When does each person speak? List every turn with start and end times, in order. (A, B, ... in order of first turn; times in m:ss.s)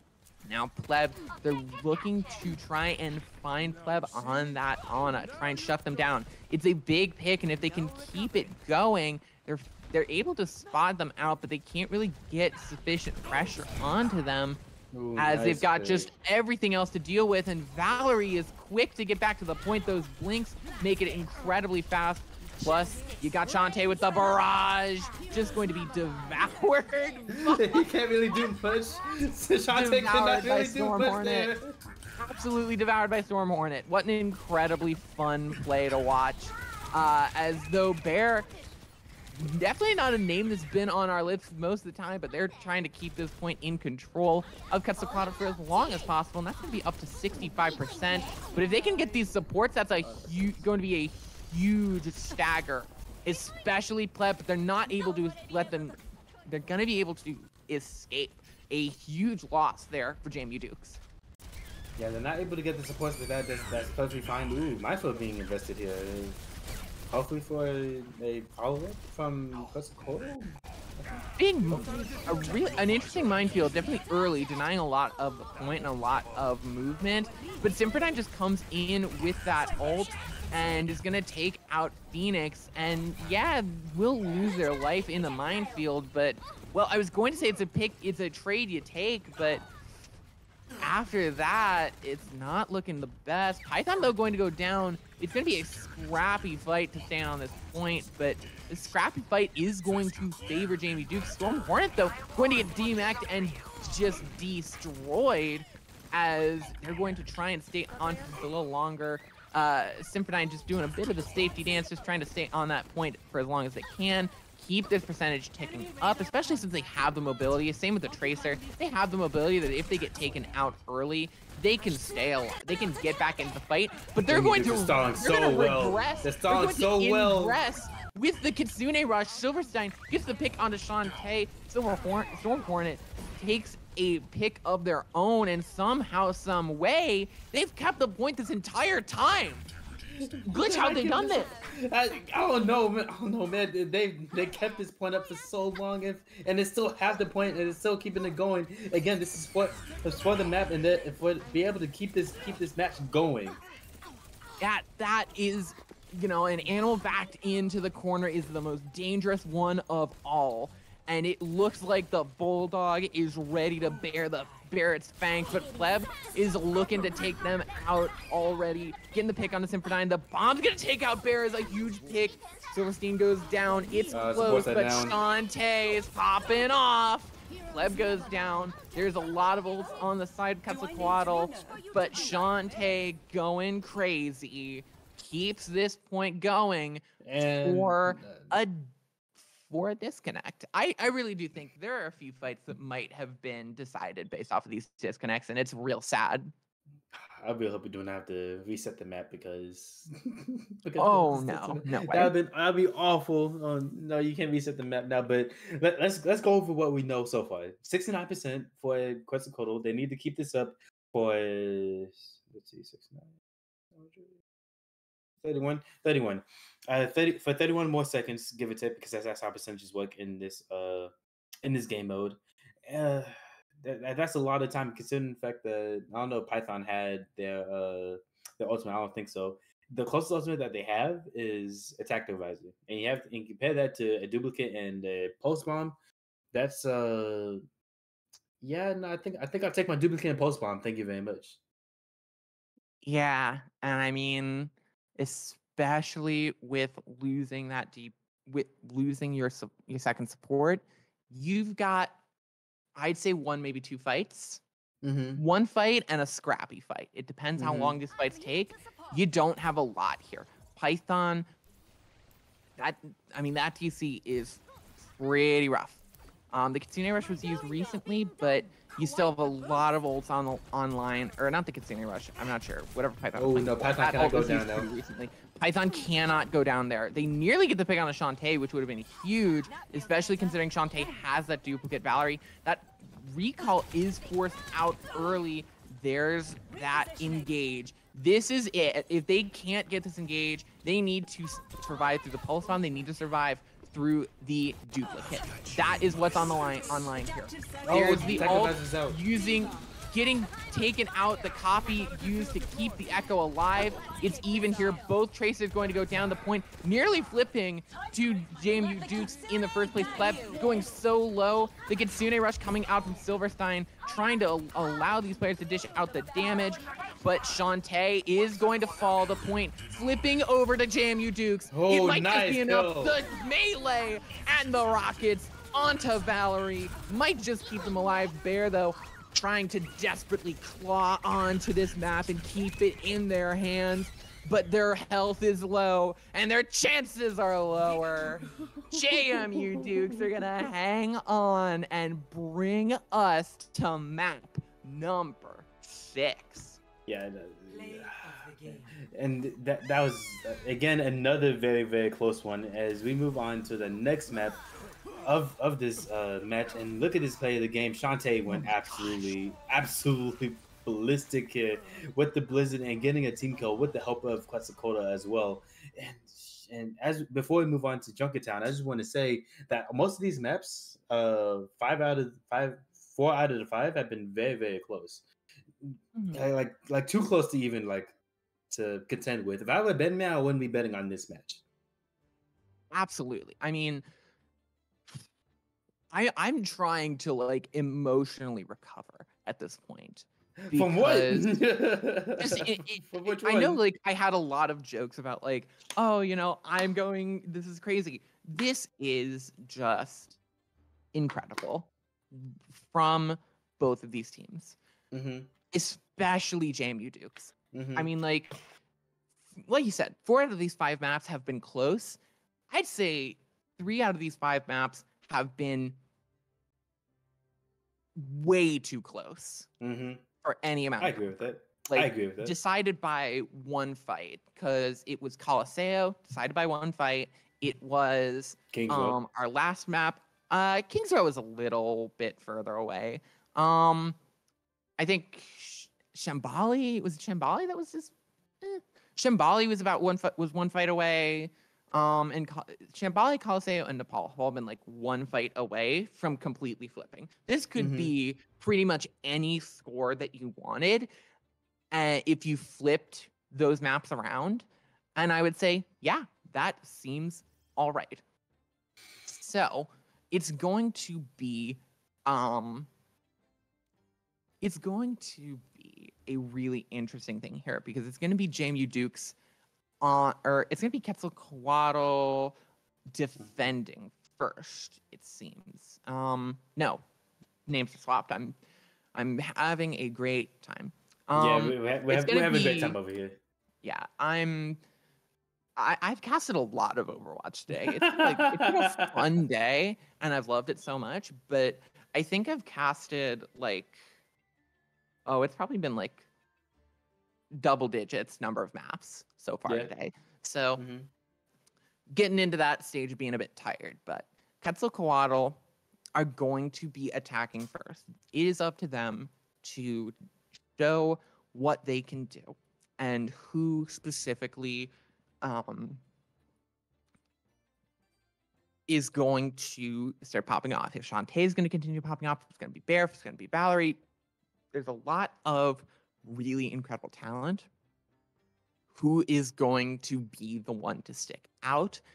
0:00.4-0:14.6 A
0:14.9-0:16.1 B
0:15.2-0:27.8 A
0:27.3-0:31.7 B
0:29.7-0:31.5 A
0:32.2-0:38.5 A
0:39.4-1:01.0 A
1:02.0-1:06.4 B
1:07.1-1:12.2 B
1:11.4-1:29.6 A
1:30.8-2:19.7 A
2:04.3-2:07.6 B
2:20.1-2:33.6 B
2:20.5-2:21.5 A
2:34.6-3:07.0 A
2:54.1-2:55.2 B
3:07.2-3:08.6 B
3:07.6-3:08.9 A
3:09.6-3:16.5 A
3:17.1-3:33.3 B
3:21.0-3:22.3 A
3:33.9-3:34.4 B
3:35.4-3:41.1 B
3:41.6-3:56.0 B
3:56.5-3:57.6 B
3:58.6-4:01.6 B
4:03.0-4:12.2 A
4:13.0-4:14.6 A
4:15.0-4:15.4 B
4:15.4-4:21.5 A
4:17.6-4:18.0 B
4:22.8-4:26.0 A
4:26.5-5:46.8 A
4:33.4-4:34.9 B
4:57.8-4:59.2 B
4:58.0-4:58.7 C
5:21.7-5:23.2 B
5:39.0-5:40.2 B
5:47.1-5:48.2 B
5:47.7-5:49.0 C
5:49.0-5:54.6 B
5:55.2-6:15.2 B
6:15.8-6:18.1 B
6:18.7-6:21.6 B
6:22.9-6:24.0 A
6:26.1-6:31.5 A
6:30.6-6:33.8 B
6:32.4-6:40.4 A
6:41.1-6:44.8 A
6:45.1-6:45.5 B
6:45.7-6:48.6 A
6:47.7-6:48.1 B
6:49.6-6:52.2 A
6:52.7-6:56.0 A
6:58.2-6:59.7 A
6:59.8-7:00.2 B
7:00.4-7:14.2 A
7:01.0-7:02.6 B
7:08.7-7:09.2 B
7:15.0-7:31.1 A
7:27.8-7:28.1 B
7:31.9-7:38.2 A
7:39.3-7:42.9 A
7:44.6-7:49.4 A
7:50.0-7:52.6 A
7:53.1-7:57.0 A
7:57.7-7:58.6 A
7:59.2-8:03.0 A
8:01.3-8:03.4 B
8:03.8-8:04.8 A
8:05.8-8:14.0 A
8:07.7-8:09.3 B
8:15.3-8:16.2 A
8:17.5-8:20.8 A
8:19.7-8:19.9 B
8:20.8-8:21.1 B
8:22.1-8:25.6 A
8:26.2-8:30.2 A
8:30.8-8:34.9 A
8:35.4-8:36.0 A
8:38.9-8:44.0 A
8:44.7-8:47.7 A
8:49.0-8:52.0 A